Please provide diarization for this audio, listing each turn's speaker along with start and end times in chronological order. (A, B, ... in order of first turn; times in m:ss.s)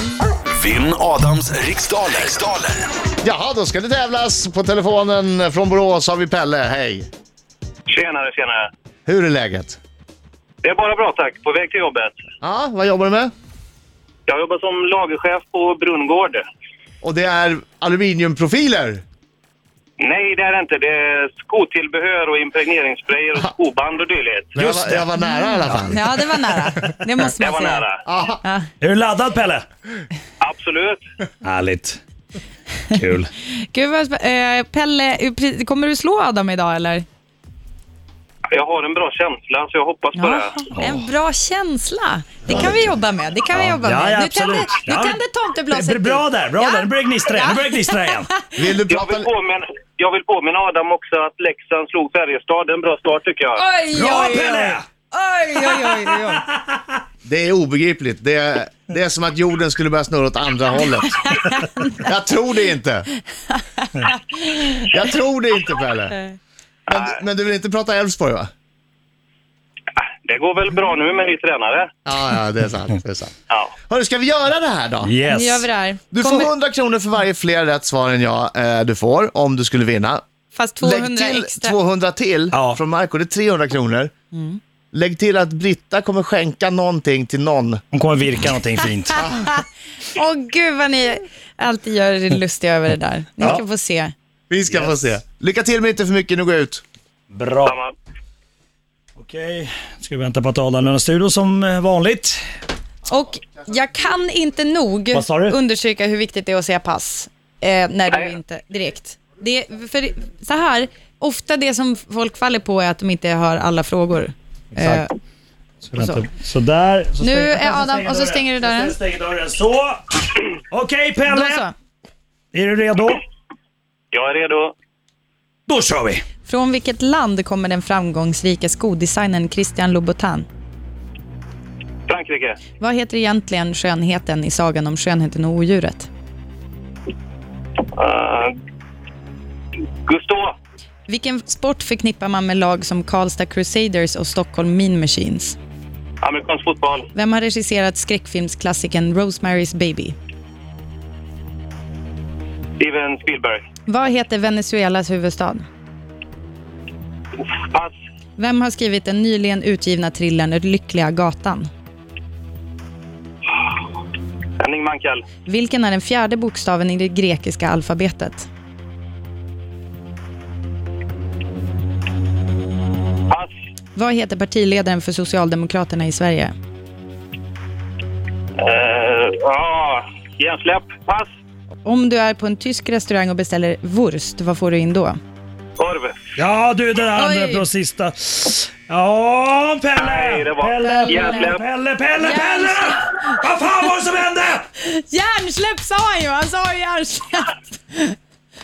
0:00.5-0:02.9 A
0:03.2-0:07.1 B
0:07.9-0:08.7 C
0:09.0-0:09.8 B
0:10.6-0:12.1 C
0:12.4-0:13.3 B
0:14.3-0:16.4 C
0:17.0-0:19.0 B
0:20.0-0:24.5 C
0:24.5-0:26.1 B
0:24.6-0:25.0 D
0:25.2-0:27.8 E
0:27.4-0:28.0 C
0:28.0-0:28.4 B
0:28.4-0:28.7 E
0:28.8-0:29.6 D
0:30.4-0:31.0 C
0:31.4-0:32.0 D
0:32.9-0:33.3 D
0:33.6-0:37.0 E
0:38.5-0:40.6 C
0:40.1-0:48.4 E
0:40.7-0:41.0 D
0:43.5-0:48.3 D
0:48.6-0:49.3 B
0:48.9-0:53.6 C
0:53.6-0:56.4 E
0:53.9-0:54.8 D
0:55.6-0:56.4 D
0:57.2-1:01.3 B
1:01.3-1:01.8 E
1:01.9-1:03.1 B
1:03.8-1:04.9 E
1:04.8-1:06.2 B
1:06.9-1:08.5 B
1:06.9-1:07.2 C
1:10.0-1:11.9 C
1:12.0-1:13.3 B
1:13.9-1:15.1 B
1:15.0-1:15.6 D
1:15.3-1:16.5 E
1:16.1-1:20.2 B
1:20.5-1:21.8 E
1:20.8-1:24.1 B
1:22.5-1:22.8 D
1:24.3-1:24.6 E
1:24.9-1:27.8 B
1:27.9-1:29.3 D
1:29.2-1:29.5 B
1:29.2-1:29.5 E
1:30.1-1:34.1 E
1:34.5-1:36.8 B
1:37.3-1:37.8 D
1:37.6-1:37.9 C
1:39.2-1:42.4 D
1:43.0-1:55.1 E
1:45.1-1:45.6 D
1:54.8-1:55.0 D
1:55.9-2:00.2 D
1:56.0-1:56.2 E
1:57.2-1:59.0 E
2:00.7-2:01.6 D
2:01.3-2:01.7 E
2:02.5-2:03.2 D
2:04.1-2:04.7 C
2:05.7-2:06.2 D
2:06.4-2:10.4 E
2:12.1-2:12.6 C
2:12.8-2:16.1 E
2:17.9-2:18.5 C
2:20.0-2:20.6 C
2:21.1-2:25.6 E
2:26.2-2:27.1 C
2:27.1-2:30.2 E
2:32.8-2:33.6 C
2:33.9-2:35.6 E
2:37.4-2:37.9 C
2:38.4-2:41.7 E
2:44.6-2:45.2 C
2:45.5-2:48.5 E
2:54.0-2:56.5 E
2:58.6-3:01.3 C
3:01.8-3:05.2 E
3:05.8-3:06.2 C
3:06.4-3:14.6 D
3:07.1-3:07.7 E
3:10.0-3:11.6 C
3:10.8-3:11.5 E
3:12.2-3:13.4 E
3:14.8-3:18.2 E